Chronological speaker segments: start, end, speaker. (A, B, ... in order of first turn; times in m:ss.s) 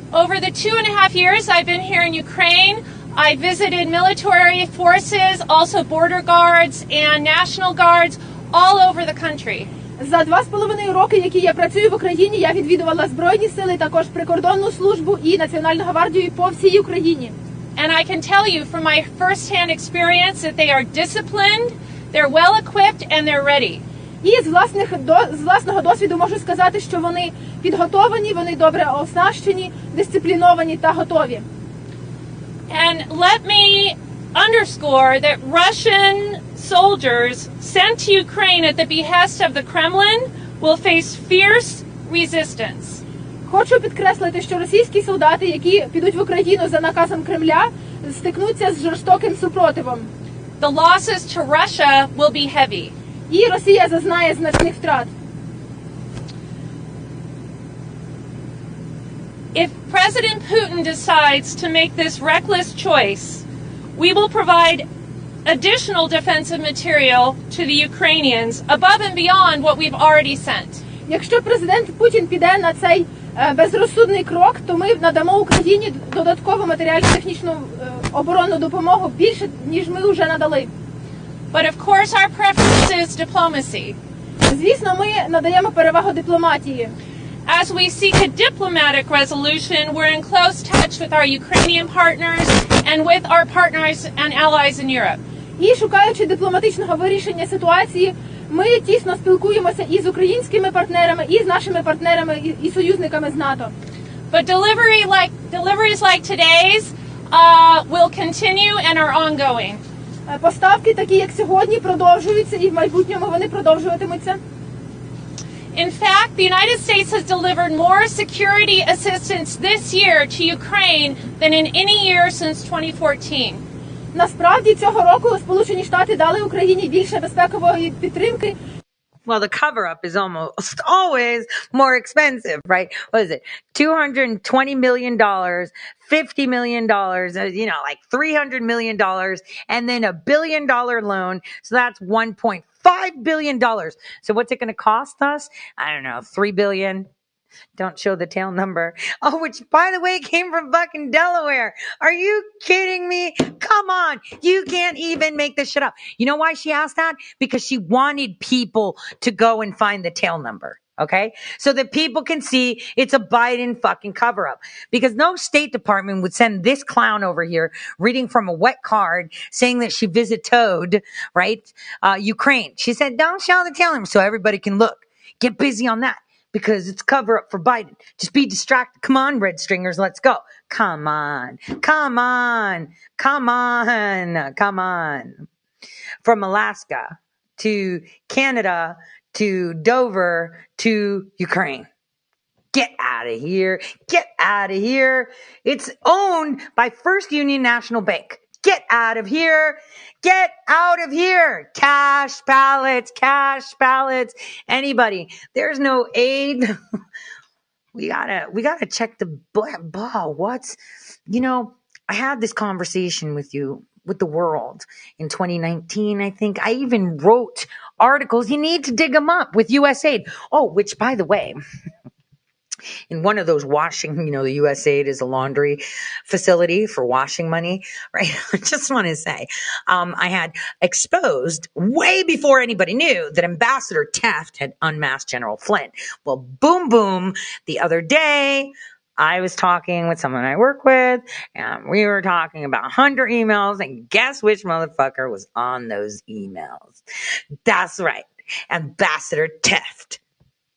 0:00.1-0:09.7 A
0:10.0-0:17.4 B
0:17.8-0:23.8 A
0:24.2-0:31.5 B
0:32.7-0:43.0 A
0:43.5-0:50.1 B
0:50.6-0:53.0 A
0:53.3-0:55.1 B
0:59.6-1:03.4 A
1:04.0-1:04.9 A
1:05.5-1:10.8 A
1:11.1-1:20.7 B
1:21.5-1:24.0 A
1:24.5-1:27.0 B
1:27.5-1:35.2 A
1:35.6-1:43.8 B
1:44.3-1:49.8 A
1:50.3-1:54.4 B
1:55.8-2:03.6 A
2:04.1-2:08.6 B
2:09.3-2:27.1 C
2:27.8-3:05.5 C
3:06.2-3:11.9 C
3:12.7-3:26.7 C
3:27.9-3:41.6 C
3:43.1-4:07.0 C
4:07.7-4:10.2 C